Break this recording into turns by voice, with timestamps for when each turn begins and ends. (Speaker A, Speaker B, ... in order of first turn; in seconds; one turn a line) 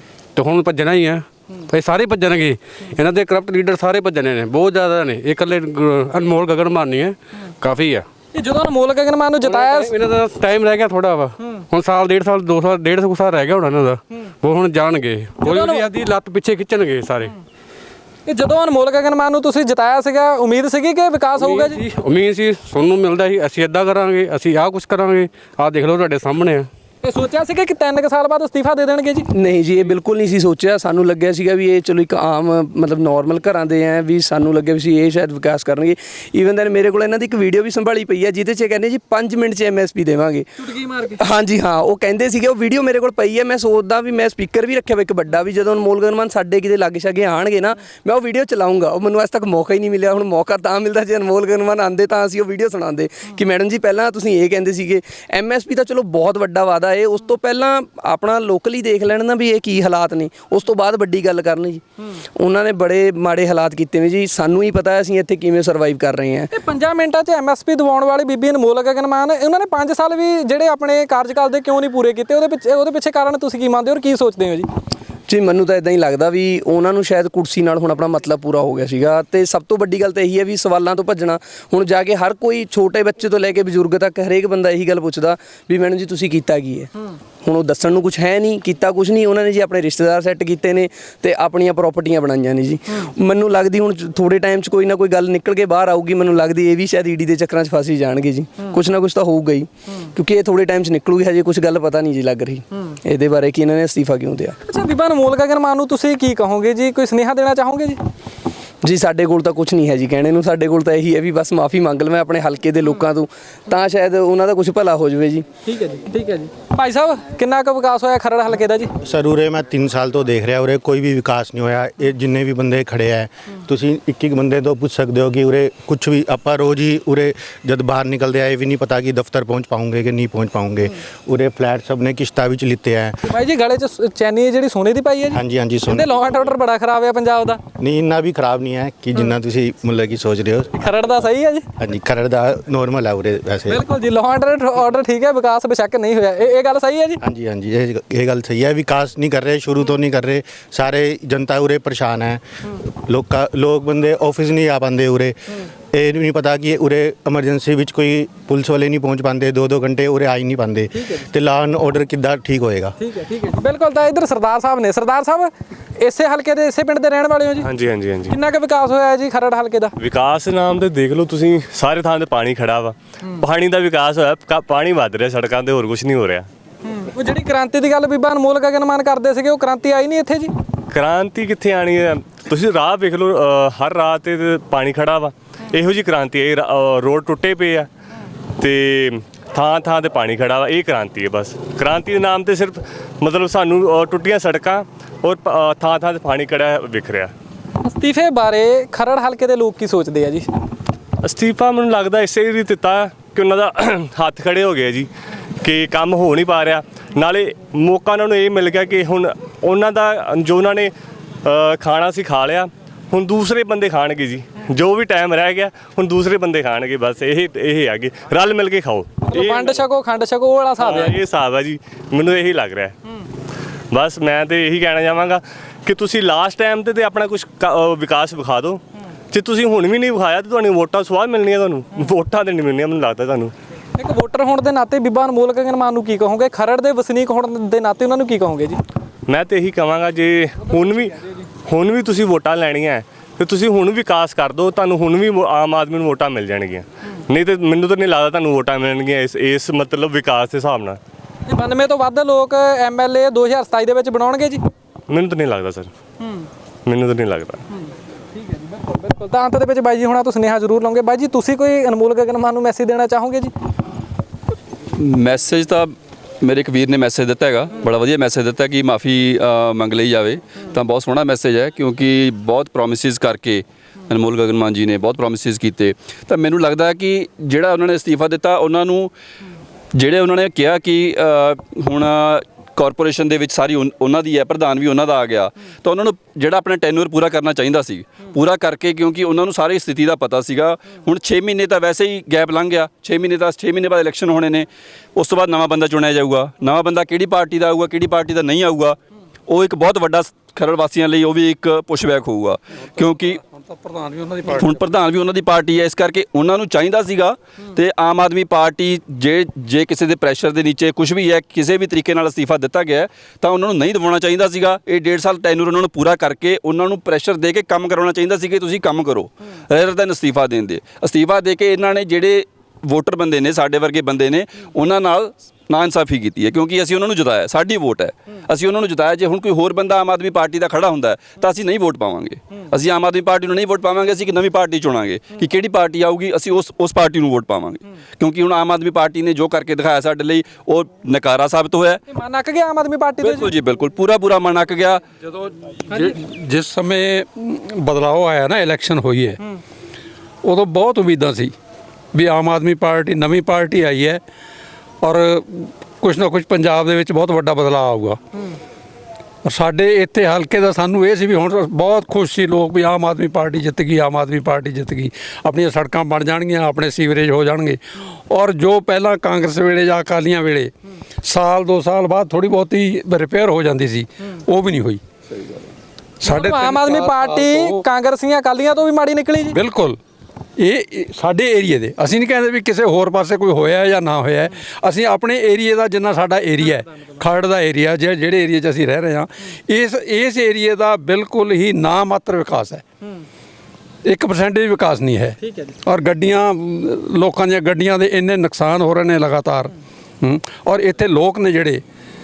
Speaker A: 0.3-8.1
Speaker B: 8.3-9.9
Speaker A: 9.4-17.3
Speaker B: 15.4-15.9
Speaker B: 18.3-21.8
Speaker A: 21.4-26.7
Speaker B: 27.0-29.3
Speaker C: 29.3-61.8
Speaker B: 40.6-41.2
Speaker C: 62.4-66.5
Speaker B: 66.5-74.7
Speaker C: 75.3-104.6
Speaker B: 104.7-108.0
Speaker C: 108.8-115.5
Speaker B: 115.6-118.9
Speaker D: 119.0-133.3
Speaker B: 133.2-137.6
Speaker D: 135.3-136.2
Speaker D: 137.8-141.1
Speaker B: 140.8-141.7
Speaker D: 141.8-143.8
Speaker B: 143.7-147.2
Speaker D: 147.2-162.9
Speaker B: 163.0-167.7
Speaker E: 167.6-168.3
Speaker B: 168.3-169.9
Speaker E: 170.0-176.5
Speaker B: 176.8-180.5
Speaker E: 180.9-187.9
Speaker E: 188.6-197.3
Speaker B: 197.8-200.5
Speaker E: 201.2-205.1
Speaker E: 205.6-210.9
Speaker E: 211.4-219.8
Speaker B: 219.2-221.1
Speaker E: 220.8-222.9
Speaker E: 223.9-233.5
Speaker B: 234.0-238.8
Speaker E: 239.3-251.0
Speaker B: 251.5-254.6
Speaker E: 255.1-255.9
Speaker B: 256.2-256.5
Speaker E: 256.9-257.6
Speaker B: 257.7-263.5
Speaker F: 264.9-279.1
Speaker F: 279.9-299.0
Speaker F: 299.5-303.4
Speaker G: 303.0-304.8
Speaker F: 304.5-342.0
Speaker B: 342.1-343.5
Speaker F: 343.2-345.0
Speaker G: 345.9-349.4
Speaker G: 350.4-351.5
Speaker G: 352.1-354.2
Speaker G: 355.0-358.2
Speaker G: 359.4-367.8
Speaker G: 368.3-370.7
Speaker G: 371.2-375.0
Speaker B: 376.2-379.6
Speaker G: 376.2-377.8
Speaker G: 379.5-380.0
Speaker G: 380.6-392.8
Speaker G: 394.1-401.8
Speaker B: 395.4-395.7